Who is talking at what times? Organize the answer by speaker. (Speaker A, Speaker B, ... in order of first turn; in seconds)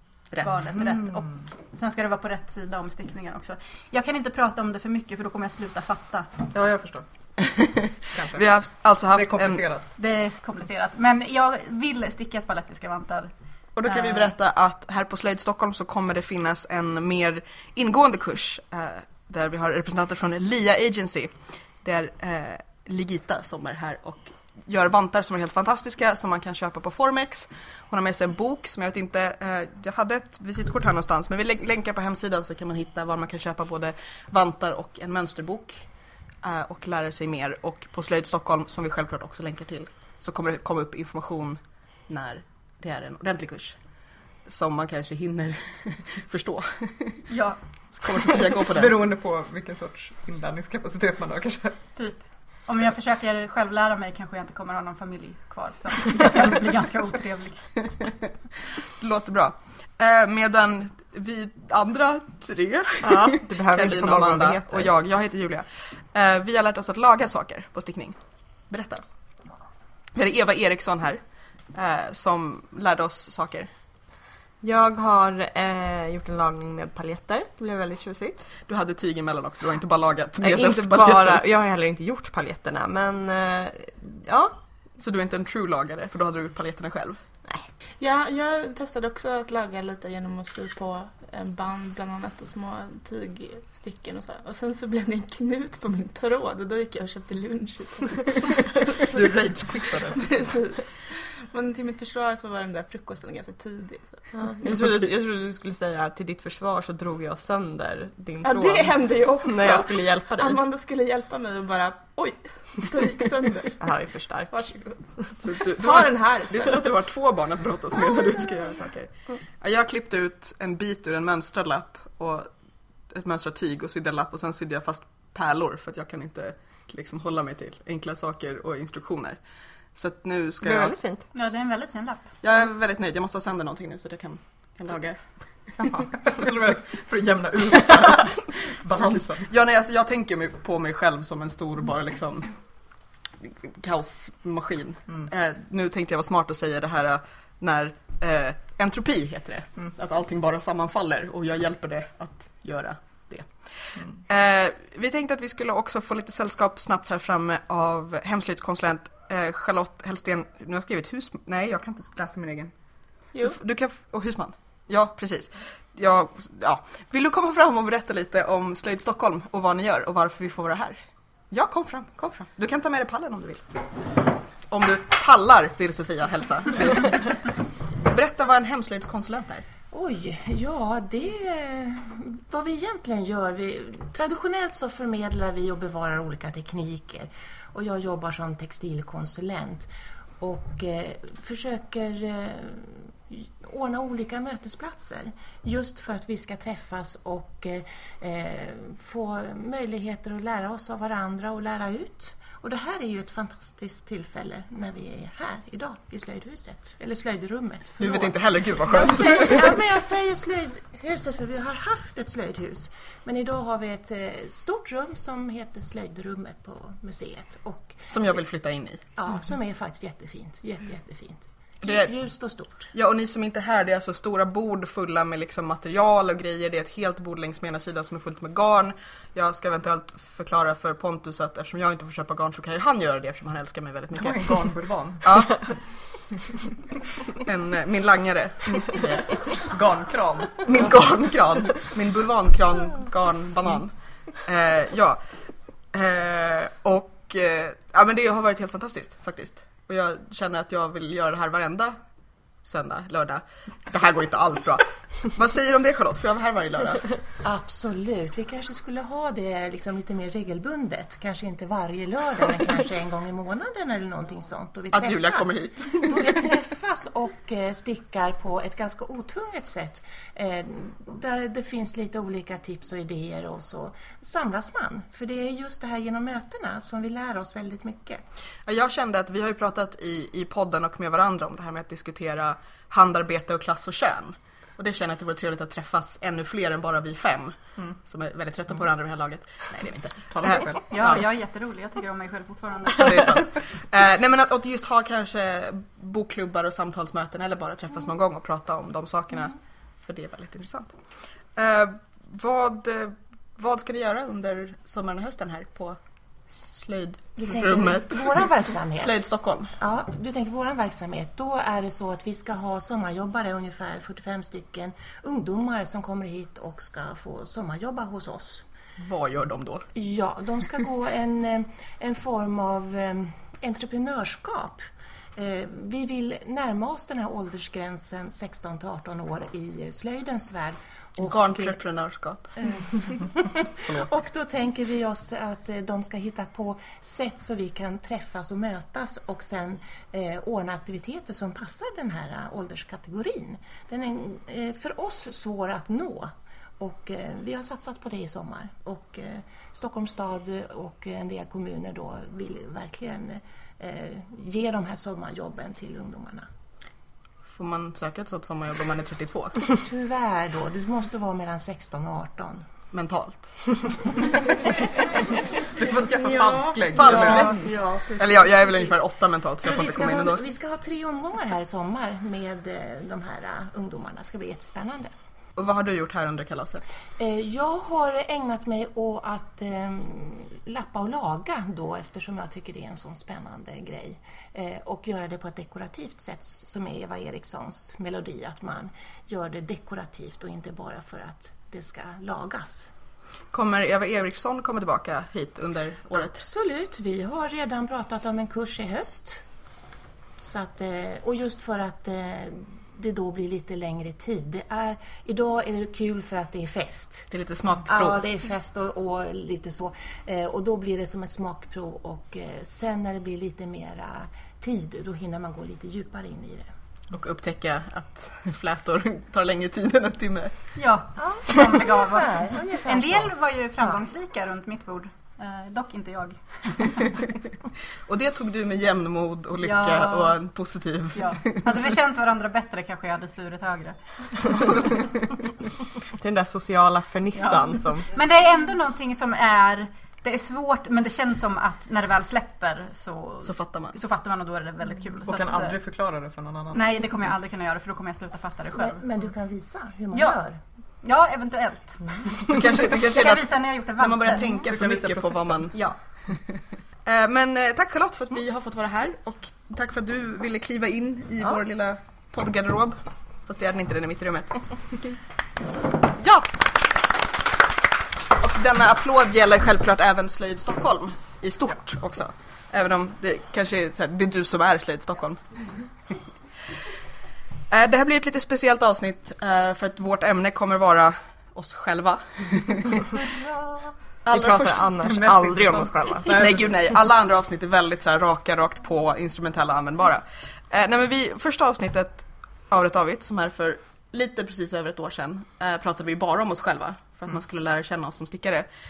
Speaker A: 0.4-6.3, 10.0-13.3, 13.8-14.3, 47.3-47.6, 52.0-57.6, 131.3-132.2, 290.6-293.4, 420.8-427.0, 429.6-430.4, 431.1-434.8, 437.4-445.8, 446.7-449.0, 450.1-450.4, 451.0-454.6
Speaker B: 0.7-1.4, 6.5-7.0, 9.1-9.9, 48.6-51.8, 98.9-100.5, 135.8-139.5, 234.1-235.5, 239.7-240.7, 290.3-291.2, 365.8-367.6, 445.2-446.9, 454.7-455.7, 485.0-486.7
Speaker C: 7.4-9.6, 13.8-21.3, 21.8-35.8, 36.4-43.8, 44.5-47.2, 48.0-49.0, 59.0-68.2, 68.7-69.0, 70.1-71.2, 71.7-73.7, 78.7-81.4, 85.0-87.2, 115.4-122.5, 123.1-129.4, 129.9-130.9, 132.4-135.2, 138.9-142.5, 143.4-162.7, 163.4-171.0, 171.5-173.6, 174.7-177.5, 178.1-179.6, 208.0-209.8, 218.1-219.0, 221.8-222.1, 222.9-234.7, 235.2-235.7, 237.3-239.6, 240.6-243.9, 244.4-245.2, 245.9-252.0, 252.6-257.1, 264.9-266.4, 278.6-291.2, 292.9-300.9, 301.6-306.0, 306.7-309.7, 319.0-319.9, 331.2-332.8, 357.5-359.6, 362.9-364.2, 368.2-370.4, 375.6-376.8, 393.5-396.4, 407.3-408.2, 417.1-420.5, 428.1-431.8, 443.4-443.9, 452.5-455.8, 457.0-464.6, 466.2-466.5, 468.4-475.4, 477.7-483.2, 484.2-484.9, 486.3-498.7
Speaker D: 63.0-64.9, 74.6-78.5, 80.4-84.5, 104.3-110.6, 113.8-114.7, 130.6-131.2, 366.9-367.6, 436.2-438.0, 484.3-486.3
Speaker E: 88.0-99.2, 99.8-104.2, 108.4-113.8, 114.5-116.9, 366.1-368.2
Speaker F: 179.9-189.9, 190.4-218.1, 219.2-222.9, 257.4-278.2, 307.4-309.2, 309.8-318.6, 319.9-324.8, 325.4-331.8, 332.6-356.5, 359.8-362.6, 369.6-375.1, 377.2-392.9, 396.2-399.4, 400.4-407.3, 407.8-416.7, 421.2-423.3, 448.8-450.6